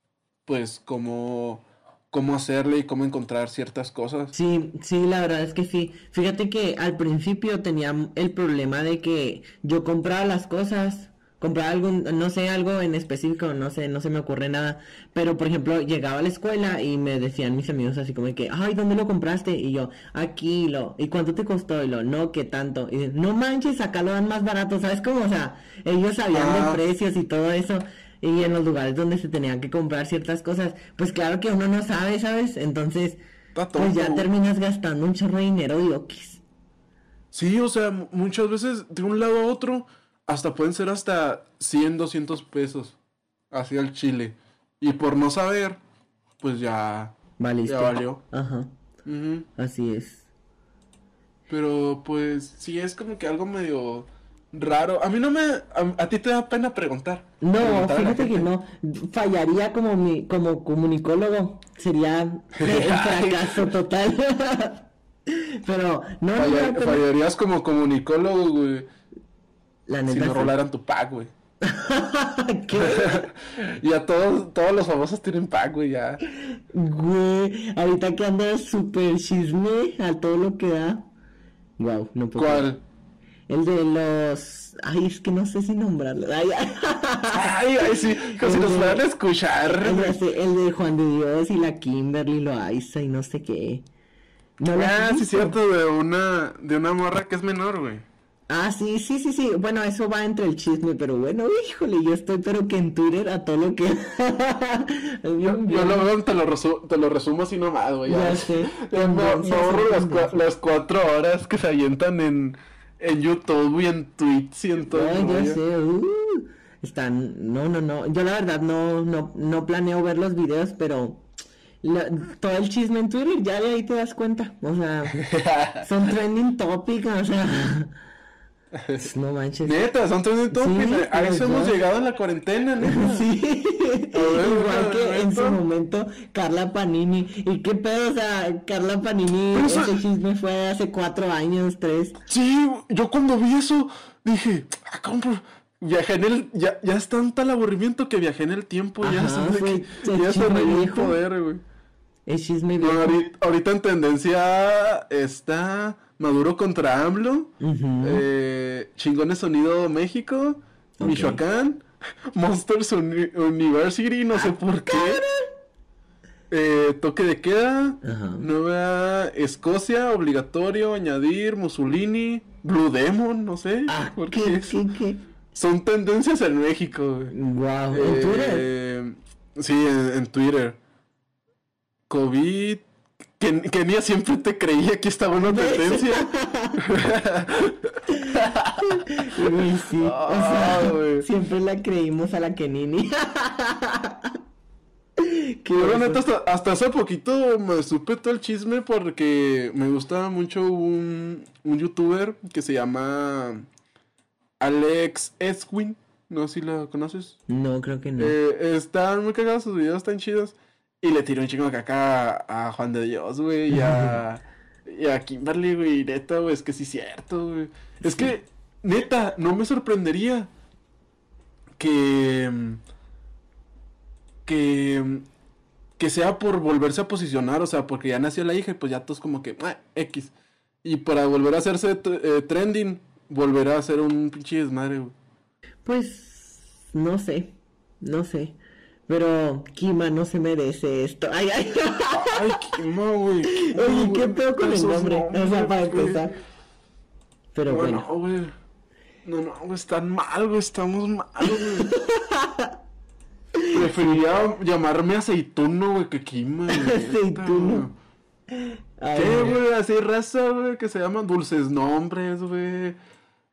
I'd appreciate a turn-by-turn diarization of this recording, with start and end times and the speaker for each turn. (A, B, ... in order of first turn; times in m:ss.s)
0:00.4-0:04.3 A
0:04.3-0:33.2 B
0:26.3-0:26.8 A
0:33.5-0:34.3 A
0:33.7-0:36.4 B
0:37.3-0:43.0 A
0:43.5-0:45.8 A
0:46.4-0:47.2 A
0:47.4-0:48.7 B
0:47.7-0:48.2 A
0:49.0-0:49.5 A
0:49.6-0:50.3 B
0:51.5-0:58.5 A
0:57.4-1:07.0 B
1:02.6-1:03.7 A
1:06.4-1:08.9 A
1:09.9-1:10.5 B
1:10.1-1:11.3 A
1:11.6-1:13.3 B
1:12.8-1:16.2 A
1:16.7-1:21.1 B
1:21.8-1:22.7 B
1:22.4-1:22.8 A
1:23.5-1:29.0 B
1:27.3-1:30.2 A
1:29.7-1:33.9 B
1:34.6-1:35.6 B
1:34.7-1:38.0 A
1:38.5-1:46.1 B
1:45.4-1:55.6 A
1:48.0-1:50.4 B
1:54.9-2:01.2 B
2:01.8-2:05.2 B
2:05.2-2:05.8 A
2:05.8-2:07.9 B
2:08.8-2:09.0 A
2:09.0-2:09.9 B
2:09.6-2:13.3 A
2:10.5-2:11.8 B
2:12.8-2:22.2 B
2:14.1-2:15.6 A
2:19.5-2:20.0 A
2:22.3-2:31.6 A
2:29.0-2:31.2 B
2:32.3-2:33.2 B
2:32.8-2:45.2 A
2:37.6-2:38.2 B
2:41.0-2:41.4 B
2:44.3-2:45.5 B
2:46.5-2:54.8 A
2:48.0-2:48.4 B
2:53.9-2:55.2 B
2:55.5-2:57.3 A
2:57.3-2:58.7 B
2:57.9-3:00.8 A
3:02.1-3:02.8 A
3:03.4-3:11.3 A
3:05.4-3:06.8 B
3:08.9-3:14.3 B
3:15.2-3:16.2 B
3:15.8-3:23.7 A
3:24.6-3:27.4 A
3:27.5-3:28.4 B
3:28.2-3:40.5 A
3:33.7-3:34.2 B
3:38.0-3:38.3 B
3:41.8-3:42.8 A
3:44.4-3:45.2 A
3:46.0-3:55.1 A
3:55.8-3:58.6 B
3:59.1-4:02.7 B
4:02.1-4:06.3 A
4:03.5-4:06.4 B
4:07.5-4:08.0 B
4:07.6-4:08.5 A
4:09.2-4:11.9 A
4:11.5-4:12.7 B
4:13.6-4:14.3 B
4:13.7-4:17.9 A
4:16.7-4:17.9 B
4:18.5-4:19.6 B
4:19.1-4:23.0 A